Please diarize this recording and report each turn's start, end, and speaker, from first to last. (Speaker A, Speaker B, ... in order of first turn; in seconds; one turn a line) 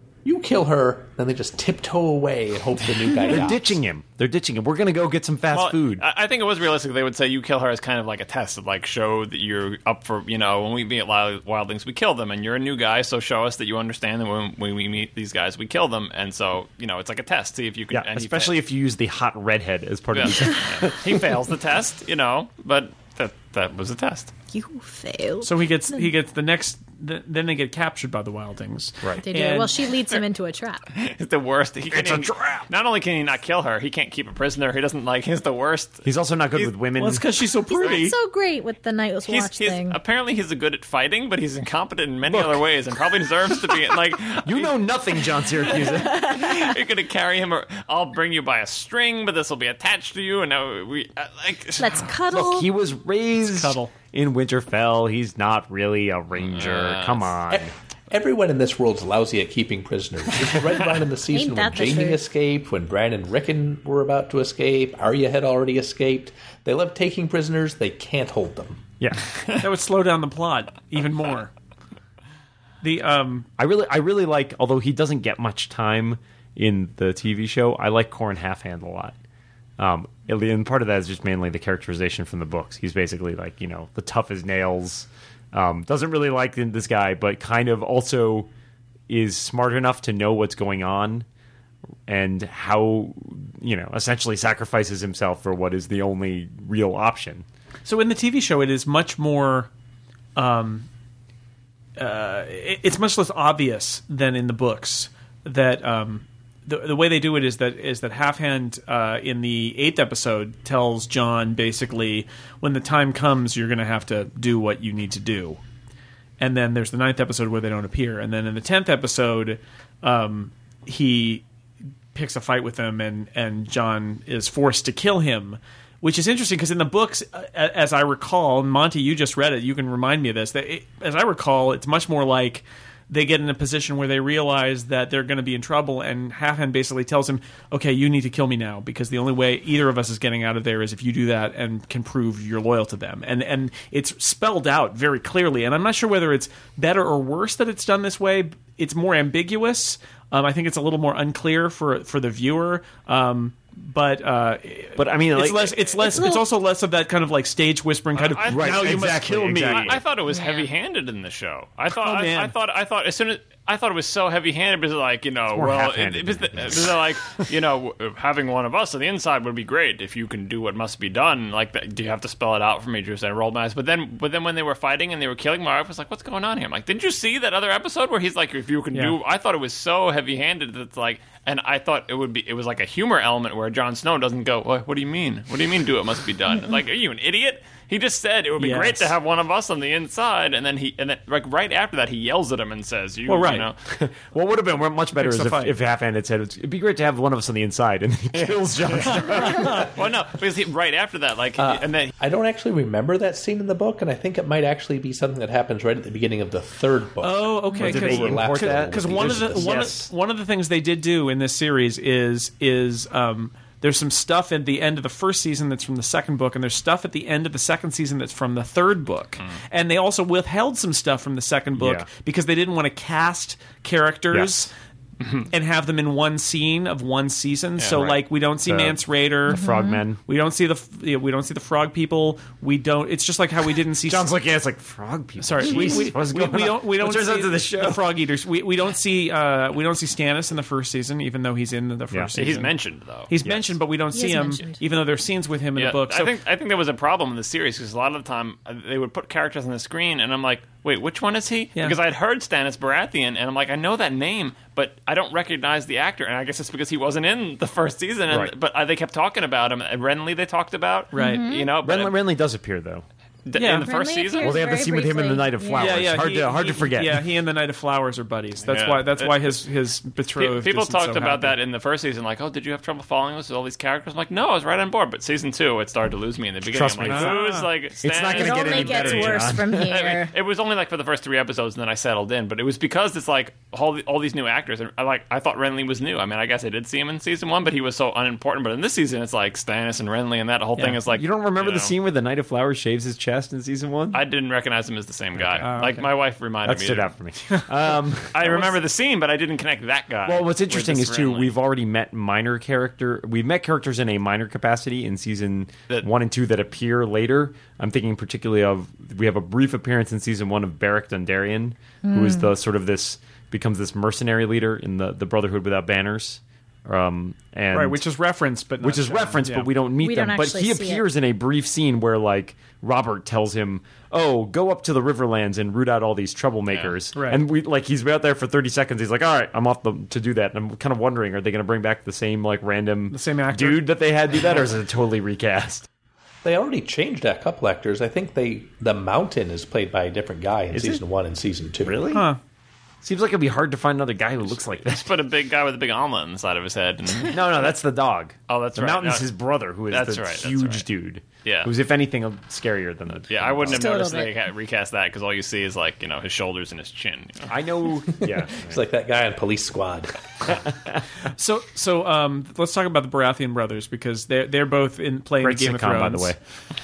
Speaker A: 0.2-3.7
Speaker B: 3.3-6.0
Speaker C: 5.5-18.6
Speaker B: 17.9-21.4
Speaker C: 20.1-24.3
Speaker D: 24.5-26.0
Speaker E: 25.4-29.8
Speaker D: 29.2-30.8
Speaker C: 30.9-36.7
Speaker B: 31.9-32.7
Speaker B: 36.0-37.2
Speaker E: 37.0-38.1
Speaker D: 37.7-40.0
Speaker C: 39.2-44.8
Speaker B: 42.2-42.6
Speaker B: 44.4-46.3
Speaker C: 45.5-52.1
Speaker D: 46.0-46.8
Speaker D: 51.8-52.7
Speaker B: 52.3-57.7
Speaker E: 53.4-53.9
Speaker C: 56.4-57.3
Speaker A: 57.5-68.8
Speaker D: 61.3-62.2
Speaker B: 69.0-69.2
Speaker E: 69.6-71.5
Speaker E: 72.8-73.5
Speaker B: 73.6-79.1
Speaker B: 79.8-88.5
Speaker B: 89.1-91.2
Speaker B: 92.1-97.5
Speaker E: 97.8-99.7
Speaker E: 100.3-100.9
Speaker E: 102.0-115.6
Speaker E: 116.4-121.4
Speaker E: 122.1-160.0
Speaker B: 154.9-155.8
Speaker D: 156.0-156.4
Speaker C: 158.1-193.8
Speaker B: 158.5-160.0
Speaker D: 160.3-160.7
Speaker E: 162.0-162.5
Speaker B: 165.5-167.4
Speaker E: 188.6-189.1
Speaker E: 193.3-193.7
Speaker B: 193.9-199.9
Speaker E: 195.2-195.7
Speaker C: 198.3-202.1
Speaker E: 199.3-199.9
Speaker A: 201.6-209.9
Speaker E: 207.2-224.7
Speaker B: 207.8-210.1
Speaker B: 221.8-222.1
Speaker B: 224.3-224.7
Speaker C: 225.2-225.5
Speaker E: 225.5-229.6
Speaker C: 227.8-228.2
Speaker B: 228.6-230.2
Speaker D: 229.5-230.0
Speaker E: 230.2-234.3
Speaker B: 234.1-238.0
Speaker E: 235.4-242.7
Speaker C: 242.3-243.3
Speaker E: 243.3-246.3
Speaker B: 243.4-243.8
Speaker D: 244.1-244.8
Speaker C: 245.8-262.1
Speaker E: 261.1-261.4
Speaker D: 261.1-261.7
Speaker B: 261.8-263.0
Speaker C: 263.4-264.6
Speaker E: 263.5-263.9
Speaker D: 263.9-266.1
Speaker B: 264.4-267.2
Speaker E: 265.8-271.6
Speaker C: 268.6-269.6
Speaker C: 270.4-291.9
Speaker B: 276.6-277.4
Speaker E: 277.1-277.7
Speaker B: 278.0-280.0
Speaker D: 278.3-280.3
Speaker B: 291.1-294.2
Speaker C: 294.1-297.1
Speaker B: 295.4-295.7
Speaker E: 295.6-296.1
Speaker B: 296.6-298.7
Speaker C: 298.3-301.5
Speaker B: 300.2-318.0
Speaker D: 312.0-312.5
Speaker E: 317.7-319.7
Speaker B: 318.8-335.9
Speaker D: 320.0-321.0
Speaker E: 327.1-327.4
Speaker E: 333.1-333.9
Speaker A: 336.4-342.0
Speaker B: 340.7-341.0
Speaker B: 341.8-342.2
Speaker E: 342.1-342.4
Speaker B: 343.0-345.2
Speaker C: 344.6-347.5
Speaker B: 347.3-354.0
Speaker C: 348.5-349.3
Speaker C: 349.9-350.8
Speaker C: 351.4-351.7
Speaker C: 353.3-357.5
Speaker D: 353.7-354.3
Speaker B: 357.5-358.8
Speaker A: 358.1-360.6
Speaker B: 360.4-361.0
Speaker E: 361.2-366.3
Speaker B: 365.4-366.4